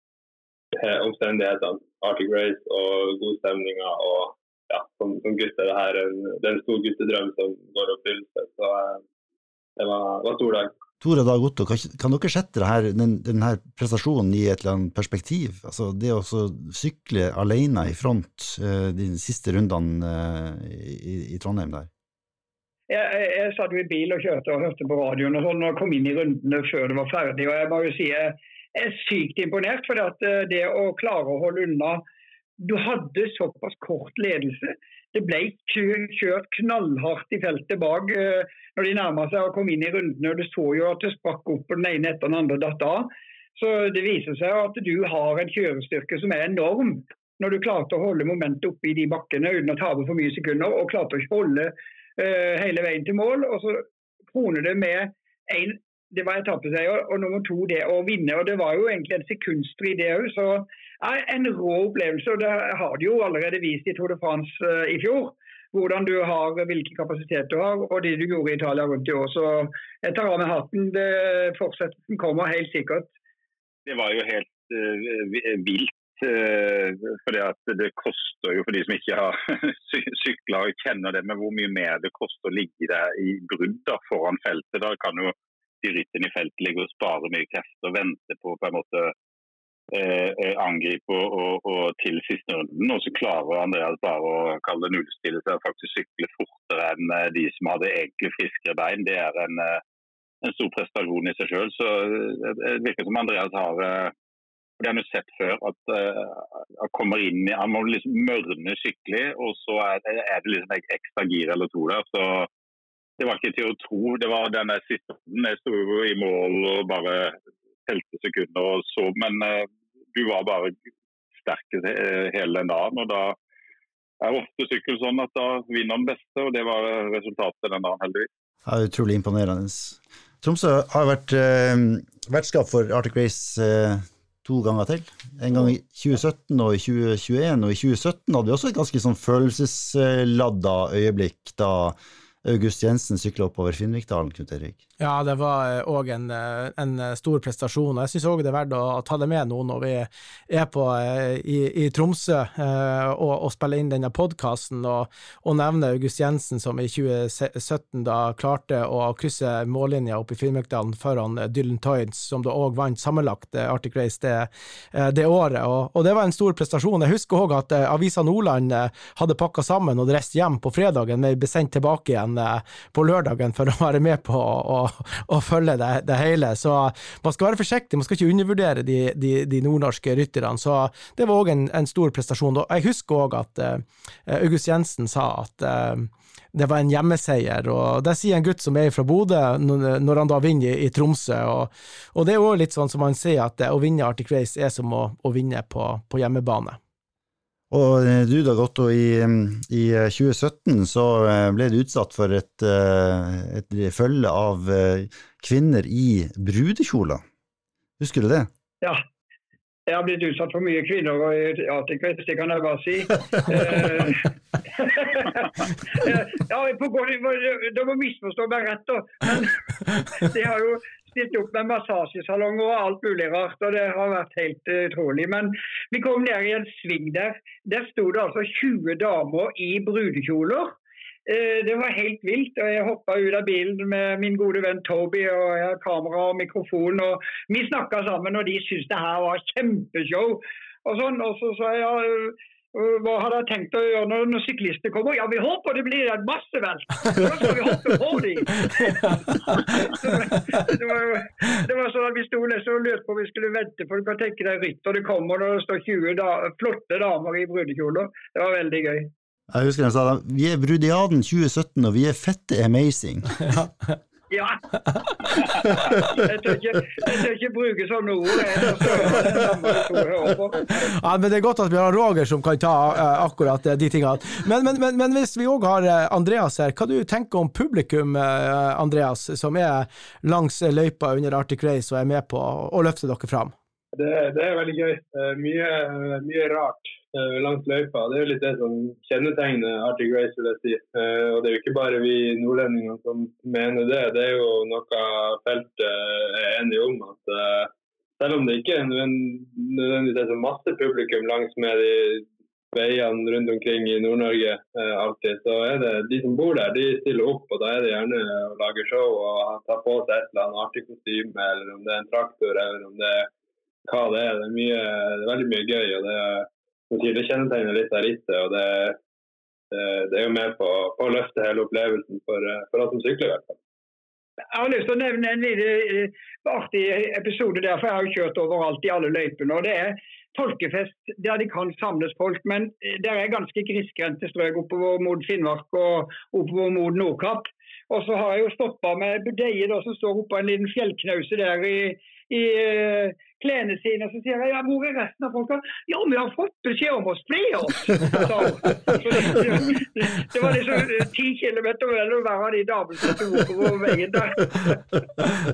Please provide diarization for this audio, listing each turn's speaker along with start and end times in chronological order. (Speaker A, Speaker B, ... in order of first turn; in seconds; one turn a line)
Speaker A: 0.8-9.0
Speaker A: 9.8-10.7
Speaker B: 11.0-21.9
Speaker C: 22.9-32.0
Speaker C: 32.6-73.1
Speaker D: 73.8-89.1
Speaker D: 89.9-99.8
Speaker D: 100.4-104.1
Speaker D: 104.8-112.5
Speaker D: 113.2-117.3
Speaker D: 117.9-120.7
Speaker D: 121.4-123.3
Speaker D: 124.2-128.3
Speaker B: 128.6-144.8
Speaker E: 145.0-196.8
Speaker B: 197.7-207.2
Speaker B: 208.0-208.5
Speaker C: 209.9-230.8
Speaker C: 231.3-259.1
Speaker B: 259.5-263.4
Speaker E: 263.5-263.9
Speaker C: 264.3-264.6
Speaker C: 266.0-270.8
Speaker E: 270.8-283.5
Speaker A: 283.9-313.3
Speaker A: 313.9-319.0
Speaker A: 319.7-323.6
Speaker C: 324.5-354.8